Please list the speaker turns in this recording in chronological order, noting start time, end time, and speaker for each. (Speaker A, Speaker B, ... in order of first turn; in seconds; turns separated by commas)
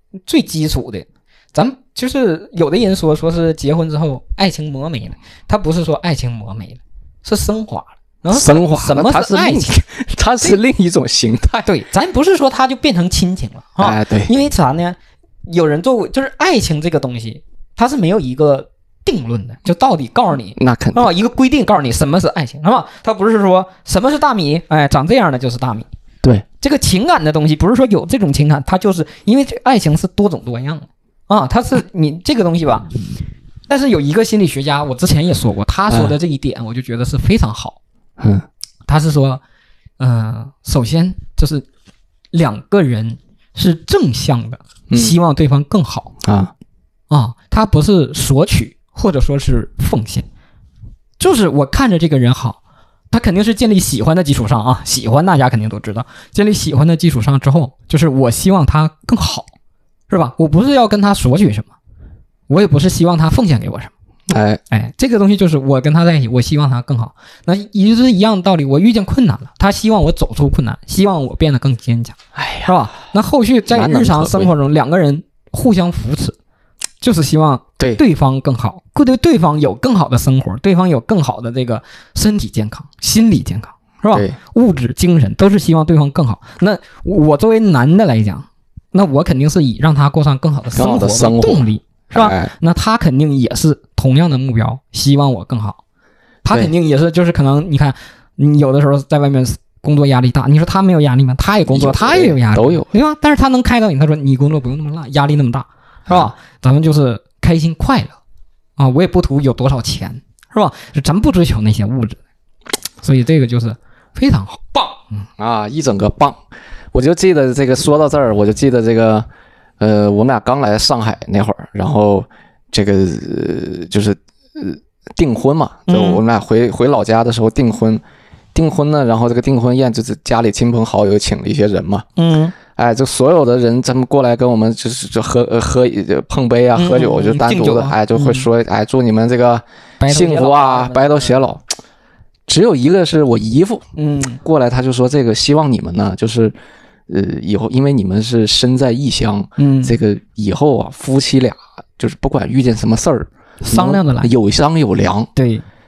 Speaker A: 0.3-9.8, Speaker B: 8.3-11.7, Speaker A: 11.7-25.9, Speaker B: 13.8-14.3, Speaker B: 20.6-21.1, Speaker A: 26.6-32.9, Speaker A: 33.7-37.8, Speaker B: 35.9-36.1, Speaker B: 38.2-38.5, Speaker A: 38.9-39.4, Speaker A: 40.0-41.6, Speaker A: 42.3-46.1, Speaker B: 44.9-45.2, Speaker B: 46.2-46.5, Speaker A: 47.1-50.3, Speaker A: 51.2-52.6, Speaker A: 53.1-59.5, Speaker A: 60.1-61.7, Speaker A: 62.5-63.9, Speaker B: 64.3-64.6, Speaker A: 64.7-76.4, Speaker B: 72.3-72.7, Speaker B: 73.7-74.5, Speaker A: 77.0-95.8, Speaker B: 90.8-92.5, Speaker A: 96.4-108.2, Speaker B: 101.7-102.9, Speaker A: 108.8-112.2, Speaker A: 113.0-115.3, Speaker B: 115.4-116.4, Speaker B: 116.9-119.3, Speaker B: 119.8-128.0, Speaker A: 125.9-126.2, Speaker B: 128.5-132.1, Speaker A: 132.2-132.6, Speaker B: 132.7-141.6, Speaker A: 136.8-138.5, Speaker A: 140.0-141.5, Speaker B: 142.5-143.8, Speaker A: 144.0-144.4, Speaker B: 144.4-146.6, Speaker B: 147.1-155.3, Speaker A: 149.6-150.0, Speaker A: 153.6-154.3, Speaker A: 155.3-155.6